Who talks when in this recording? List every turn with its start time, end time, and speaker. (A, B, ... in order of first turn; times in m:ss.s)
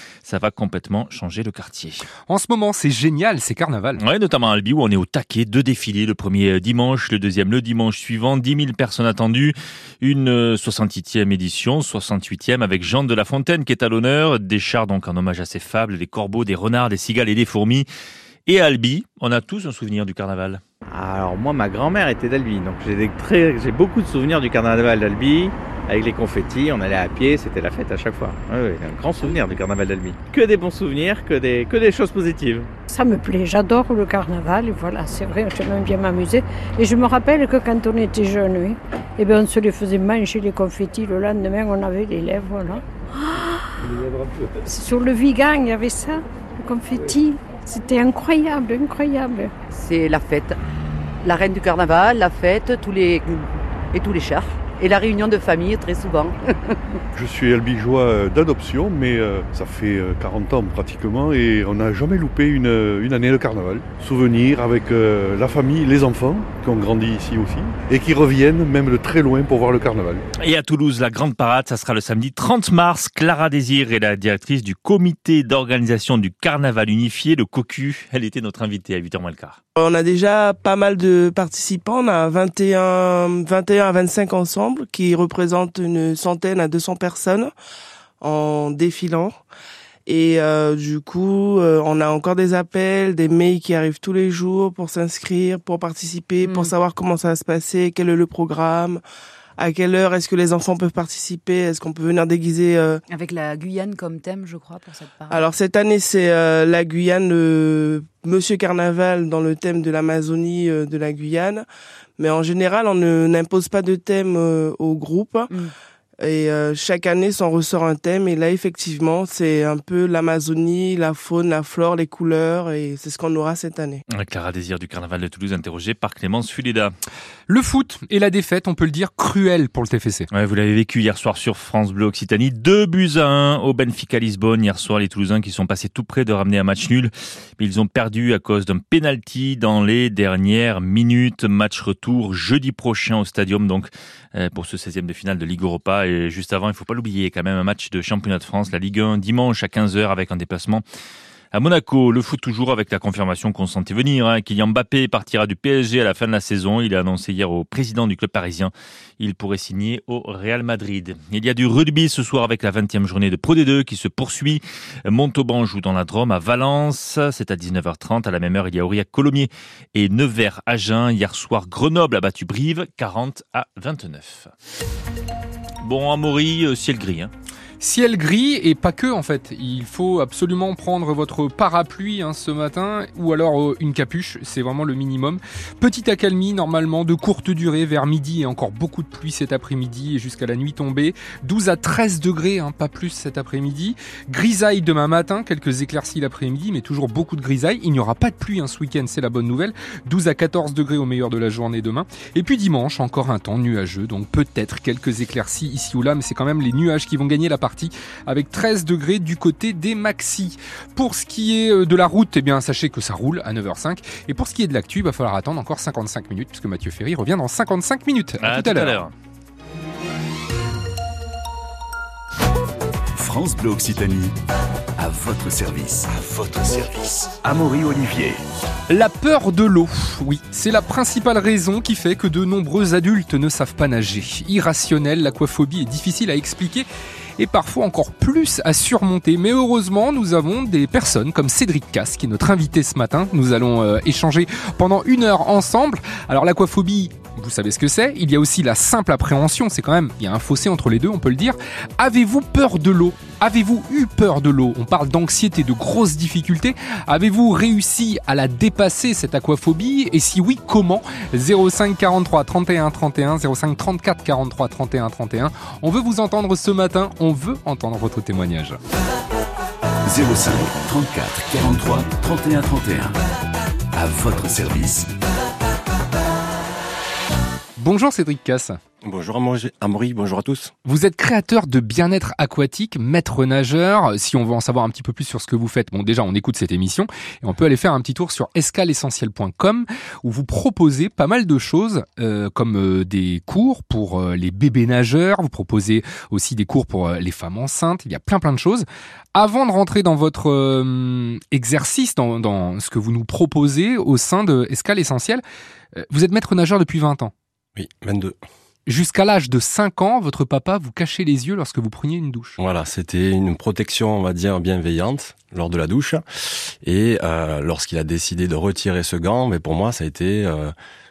0:00.2-0:02.0 A
0:02.3-0:04.0 B
0:04.0-0:17.8 A
0:18.5-0:20.6 A
0:20.9-0:32.7 C
0:32.9-0:43.7 D
0:44.6-0:49.5 D
0:49.7-0:50.5 E
0:51.2-0:56.4 E
0:57.1-1:10.2 F
1:10.4-1:19.6 A
1:19.8-1:27.5 G
1:28.2-1:29.4 G
1:30.0-1:39.0 G
1:36.4-1:36.7 H
1:39.6-1:43.0 G
1:43.1-1:45.4 H
1:45.3-1:51.6 G
1:52.2-1:55.5 G
1:56.2-2:04.0 G
2:04.1-2:06.9 A
2:07.5-2:10.3 B
2:10.3-2:30.8 A
2:31.5-2:54.5 A
2:55.8-2:57.3 A
2:57.8-3:39.0 B
3:38.4-3:39.1 A
3:43.1-3:44.3 I
3:45.0-3:48.4 I
3:48.9-3:56.9 B
3:57.4-4:28.8 B
4:30.1-4:33.1 I
4:33.9-4:35.1 I
4:37.8-4:38.8 B
4:39.0-4:40.7 J
4:40.8-5:05.4 B
5:05.9-5:07.3 B
5:07.8-5:08.4 J
5:08.8-5:12.6 B
5:12.6-5:16.2 J
5:16.8-5:20.7 J